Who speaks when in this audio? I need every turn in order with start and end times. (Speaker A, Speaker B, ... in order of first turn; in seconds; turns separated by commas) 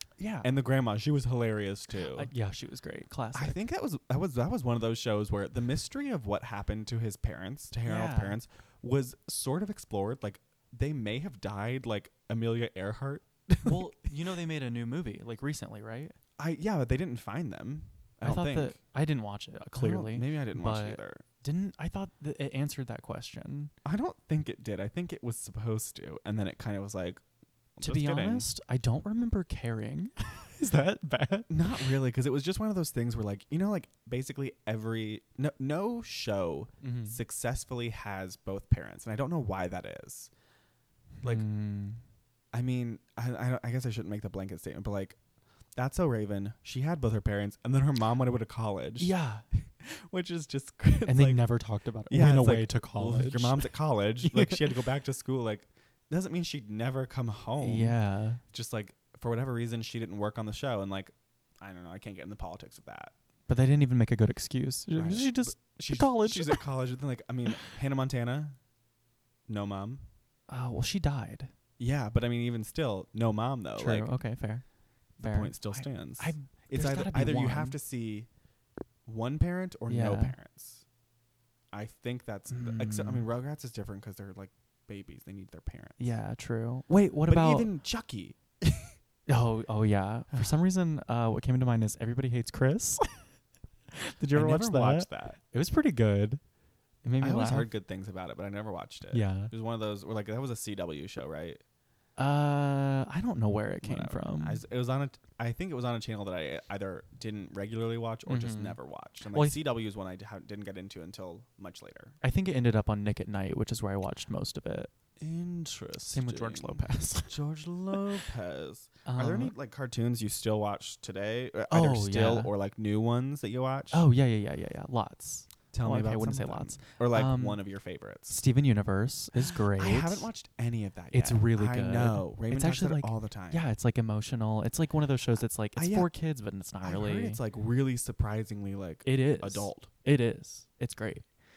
Speaker A: 0.2-0.5, Speaker B: 0.4-2.3, Speaker A: 2.1-3.6, Speaker B: 3.3-13.8, Speaker A: 7.8-8.4, Speaker A: 13.6-16.2, Speaker B: 16.4-18.8, Speaker A: 18.2-23.7, Speaker B: 19.7-21.2, Speaker B: 23.9-27.2, Speaker B: 27.8-28.5, Speaker A: 27.8-31.9, Speaker B: 31.5-40.3, Speaker A: 36.8-37.2, Speaker A: 41.2-42.0, Speaker B: 42.5-45.2, Speaker B: 45.8-51.4, Speaker A: 49.0-49.4, Speaker A: 51.1-53.7, Speaker B: 52.1-63.1, Speaker A: 54.2-54.6, Speaker A: 57.6-58.4, Speaker A: 63.5-66.6, Speaker B: 65.0-68.6, Speaker B: 69.5-70.0, Speaker A: 70.5-71.5, Speaker B: 71.8-74.1, Speaker A: 73.8-74.7, Speaker A: 75.2-77.8, Speaker B: 75.2-78.3, Speaker B: 79.1-80.8, Speaker A: 79.9-80.4, Speaker B: 81.7-86.1, Speaker A: 82.5-83.2, Speaker A: 86.0-87.7, Speaker B: 87.3-88.9, Speaker A: 89.3-93.3, Speaker A: 93.9-96.4, Speaker B: 94.3-95.4, Speaker A: 97.0-97.7, Speaker B: 97.2-101.6, Speaker A: 99.1-99.5, Speaker A: 102.2-104.6, Speaker B: 103.8-112.2, Speaker A: 108.3-109.6, Speaker A: 112.2-114.9, Speaker B: 115.2-124.1, Speaker A: 116.1-117.4, Speaker A: 119.0-119.5, Speaker A: 121.7-122.5, Speaker A: 123.9-127.6, Speaker B: 125.7-128.4, Speaker A: 128.3-130.3, Speaker B: 129.8-133.7, Speaker A: 131.1-137.4, Speaker B: 135.8-136.1, Speaker B: 136.8-139.9, Speaker A: 139.1-141.2